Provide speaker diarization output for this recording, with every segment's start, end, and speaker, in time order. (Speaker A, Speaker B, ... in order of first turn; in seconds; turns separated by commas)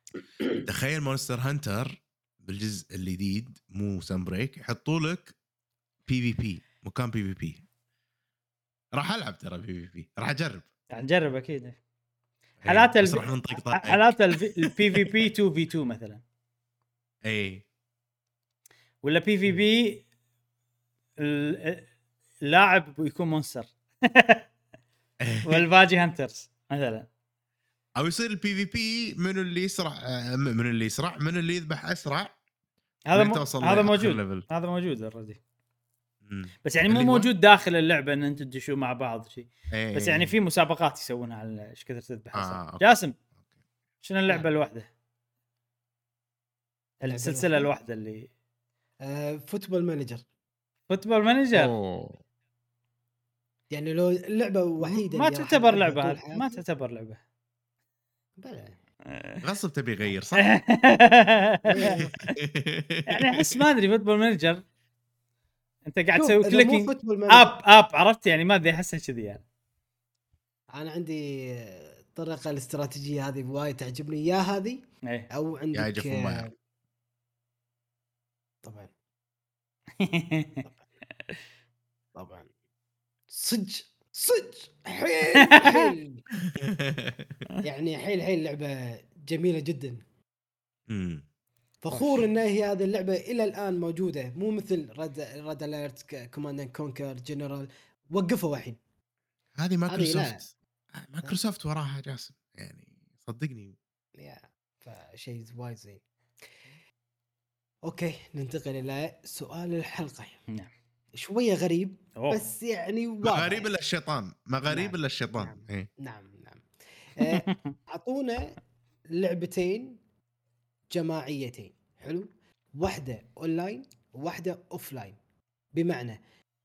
Speaker A: 0.6-5.3, Speaker A: 6.1-7.6, Speaker A: 8.9-10.7, Speaker B: 10.9-11.8, Speaker A: 12.6-15.1, Speaker B: 12.7-16.2, Speaker A: 17.2-17.6, Speaker B: 19.0-20.0, Speaker B: 21.2-21.9, Speaker B: 22.4-24.4, Speaker A: 25.2-25.6, Speaker B: 25.4-27.1, Speaker A: 28.0-32.3, Speaker B: 33.1-35.4, Speaker A: 33.1-34.4, Speaker A: 36.2-37.3, Speaker B: 36.6-43.1, Speaker A: 39.7-40.3, Speaker A: 42.3-42.8, Speaker B: 44.0-44.9, Speaker B: 47.0-48.3, Speaker C: 47.0-47.7, Speaker C: 49.0-50.2, Speaker B: 50.9-51.7, Speaker A: 51.5-52.2, Speaker C: 53.7-56.6, Speaker B: 54.8-57.2, Speaker C: 58.4-58.8, Speaker B: 59.1-59.4, Speaker A: 59.4-60.5, Speaker B: 60.4-62.0, Speaker C: 61.6-62.3, Speaker A: 61.8-63.6, Speaker B: 63.1-64.6, Speaker B: 65.9-69.4, Speaker C: 66.2-67.5, Speaker C: 70.7-76.5, Speaker A: 75.7-76.5, Speaker C: 78.6-78.9, Speaker B: 80.0-80.6, Speaker C: 82.1-82.5, Speaker C: 83.3-86.2, Speaker B: 85.4-85.9, Speaker A: 86.5-87.4, Speaker C: 87.6-90.0, Speaker A: 90.9-91.2, Speaker C: 91.8-98.8, Speaker B: 91.9-92.2, Speaker A: 99.6-103.8, Speaker C: 99.9-100.4, Speaker C: 104.2-106.0, Speaker C: 107.8-110.4, Speaker C: 111.1-113.7, Speaker B: 112.2-112.5, Speaker A: 113.2-115.9, Speaker C: 114.7-118.6, Speaker B: 117.2-117.7, Speaker C: 119.1-120.0, Speaker C: 120.9-125.2, Speaker C: 125.7-126.2